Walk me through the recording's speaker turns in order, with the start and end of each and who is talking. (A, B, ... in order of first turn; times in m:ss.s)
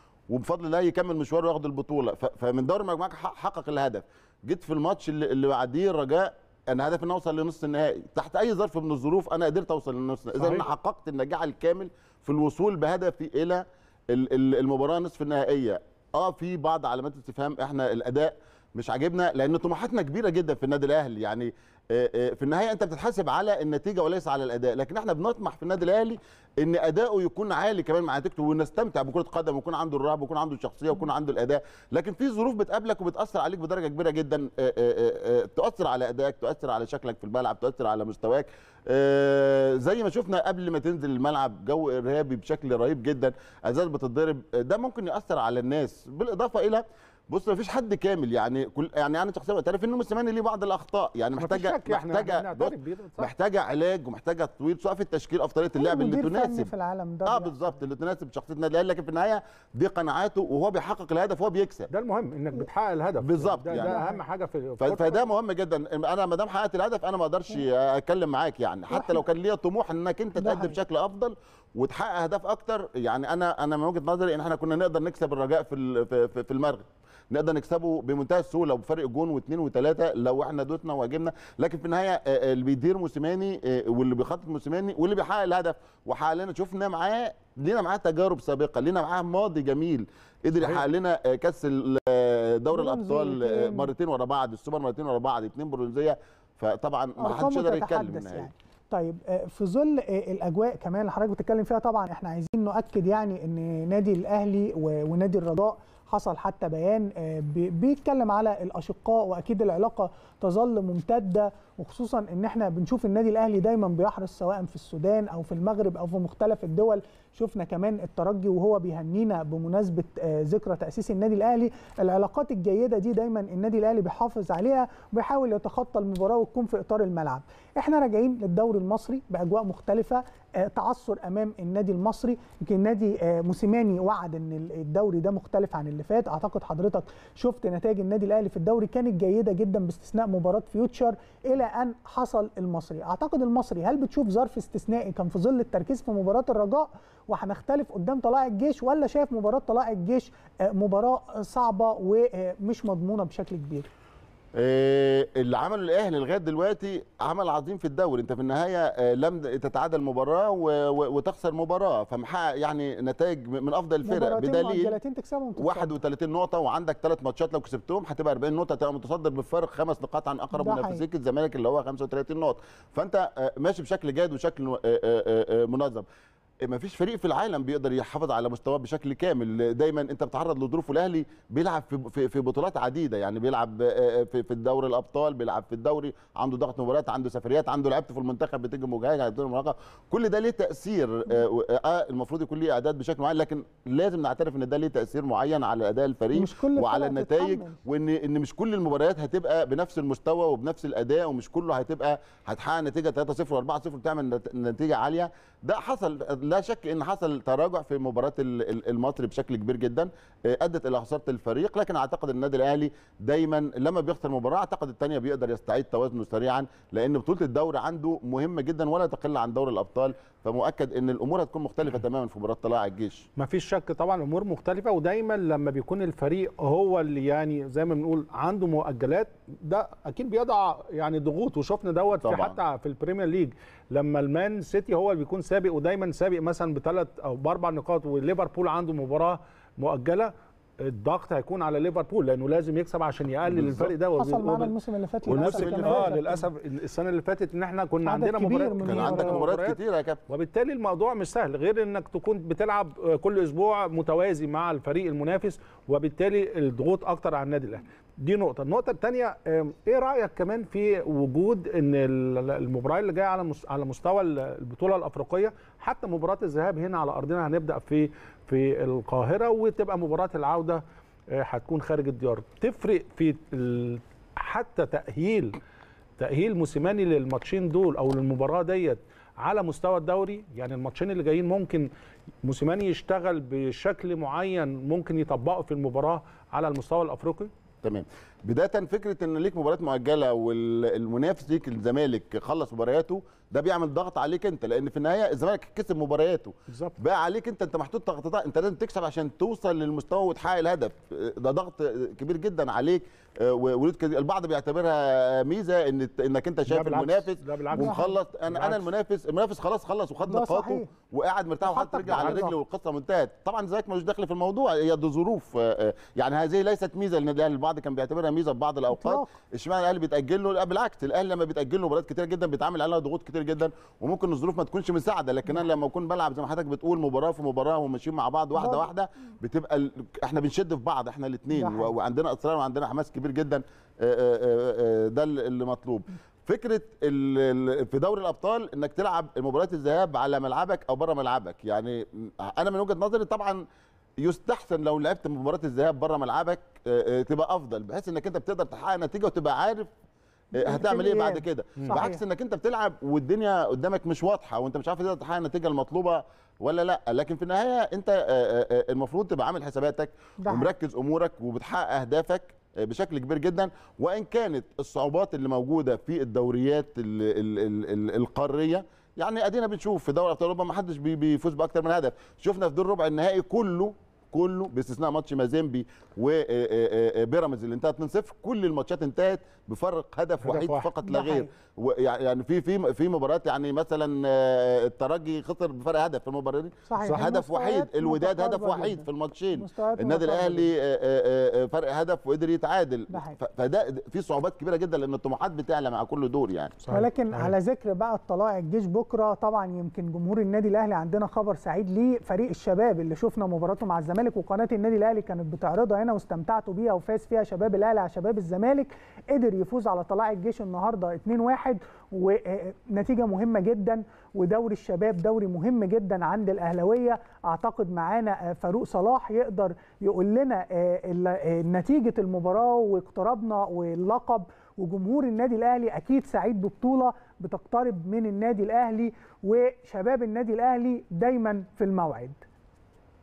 0:00.3-0:56.7 A
0:10.4-0:10.7 B
0:51.4-0:53.3 B
0:55.8-0:57.5 C
0:57.2-1:01.9 A
1:01.9-1:05.2 B
1:03.2-1:03.9 A
1:03.7-1:04.2 C
1:04.8-1:38.5 A
1:08.9-1:09.2 C
1:10.4-1:10.8 C
1:32.7-1:33.9 C
1:37.2-2:33.9 C
2:34.6-2:45.0 A
2:44.0-2:45.9 C
2:45.6-2:56.0 A
2:50.5-2:51.0 C
2:56.6-3:43.2 A
3:16.3-3:17.8 C
3:43.4-4:04.7 B
3:52.2-3:52.6 A
4:03.5-4:03.9 A
4:04.1-4:06.5 C
4:05.2-4:35.6 B
4:05.3-4:06.1 A
4:08.0-4:09.4 C
4:08.8-4:10.2 A
4:36.2-4:41.9 B
4:42.4-4:47.5 B
4:47.8-5:43.6 A
4:56.7-4:57.0 B
5:06.7-5:08.8 B
5:07.8-5:08.1 C
5:10.2-5:10.9 C
5:11.6-5:12.5 C
5:12.1-5:12.4 B
5:19.0-5:19.2 C
5:28.6-5:28.8 C
5:31.5-5:31.9 C
5:44.2-5:49.9 A
5:50.5-5:52.2 C
5:50.6-6:36.8 A
5:51.8-5:52.0 B
6:00.4-6:00.7 C
6:20.4-6:20.9 B
6:21.0-6:21.5 C
6:26.9-6:30.7 C
6:33.1-6:33.4 C
6:36.8-6:37.5 B
6:36.9-7:12.4 C